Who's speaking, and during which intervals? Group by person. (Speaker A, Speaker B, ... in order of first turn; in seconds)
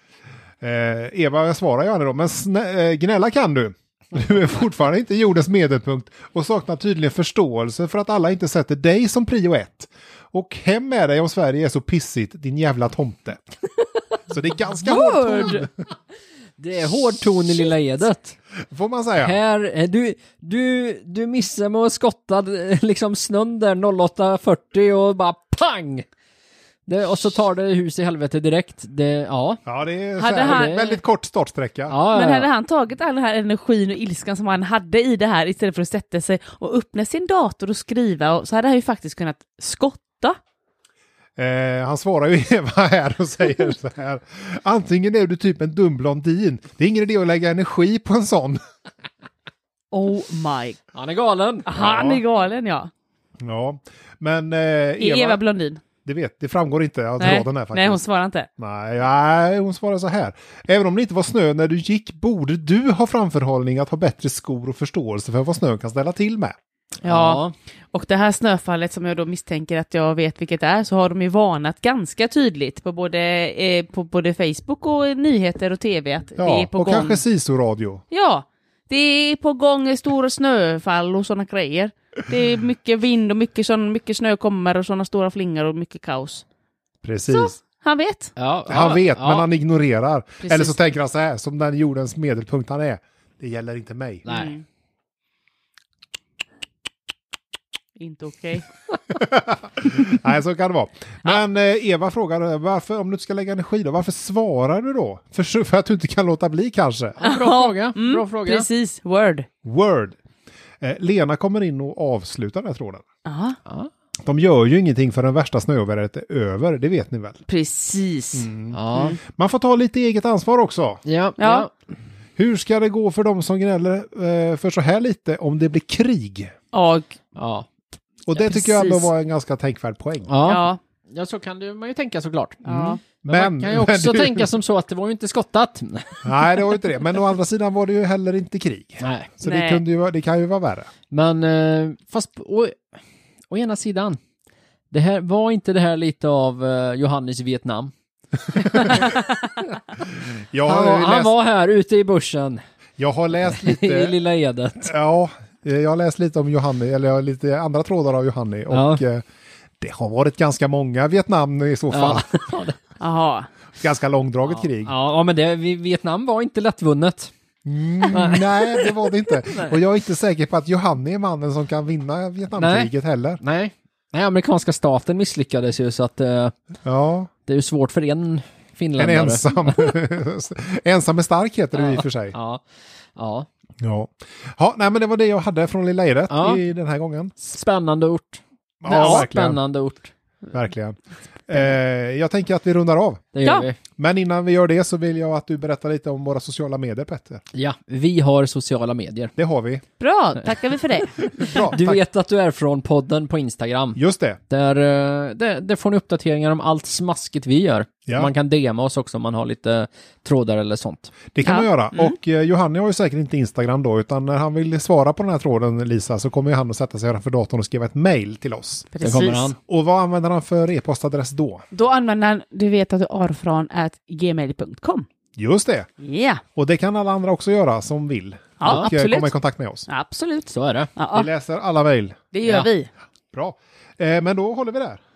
Speaker A: 0.6-13.4, 14.3-15.7, 18.7-19.4, 29.6-31.9, 41.4-48.6, 51.8-52.2, 53.4-55.4, 56.0-58.0, 58.6-66.5, 76.4-78.0, 87.0-87.6, 88.7-94.2, 99.2-107.2, 109.6-110.2, 110.8-113.0, 114.2-117.4, 118.3-121.0, 122.4-126.5, 128.2-130.3, 133.3-134.5, 136.2-140.9, 148.5-149.0, 150.5-151.3, 153.0-154.2, 154.8-159.2, 159.8-162.3, 163.8-164.9, 167.7-173.4, 176.8-177.3, 179.0-182.3, 183.8-187.3, 188.8-189.6, 190.5-193.2, 194.0-197.4, 199.4-199.8, 201.4-202.0, 203.9-204.4, 208.1-208.3, 211.3-218.9, 219.7-221.6, 225.3-225.9, 226.6-229.8, 231.1-232.2, 233.3-235.0
Speaker B: 14.7-15.7, 16.6-18.4, 19.2-26.1, 26.9-29.6, 30.3-31.0, 31.9-32.5, 50.9-51.7, 67.0-67.5, 88.4-89.5, 94.2-94.5, 107.2-108.7, 118.7-119.1, 121.0-121.7, 127.3-127.7, 130.3-136.3, 139.0-139.3, 141.1-142.8, 143.5-144.2, 144.9-147.9, 148.6-149.1, 150.6-152.6, 153.5-154.9, 158.7-159.0, 161.9-162.8, 164.6-167.3, 168.0-169.8, 172.6-172.9, 173.4-176.5, 177.5-179.9, 181.8-182.6, 183.2-183.5, 186.3-186.6, 187.4-190.1, 193.3-193.8, 197.5-199.3, 201.2-204.0, 204.5-211.1, 219.0-219.6, 230.5-230.9
Speaker C: 30.2-30.8, 32.1-40.4, 49.9-50.8, 51.6-52.9, 55.0-55.8, 57.2-58.5, 67.0-77.2, 78.1-86.4, 87.3-88.3, 90.4-90.7, 94.3-94.6, 98.0-98.7, 107.2-109.5, 113.2-113.6, 117.5-119.2, 121.4-121.7, 126.7-127.2, 128.4-129.1, 130.4-130.8, 132.6-133.0, 139.4-139.8, 163.0-163.5, 193.4-193.7, 200.0-201.7, 211.4-212.2, 218.9-219.5, 221.7-225.1, 226.0-226.4, 228.6-229.3, 229.9-231.3, 232.3-232.9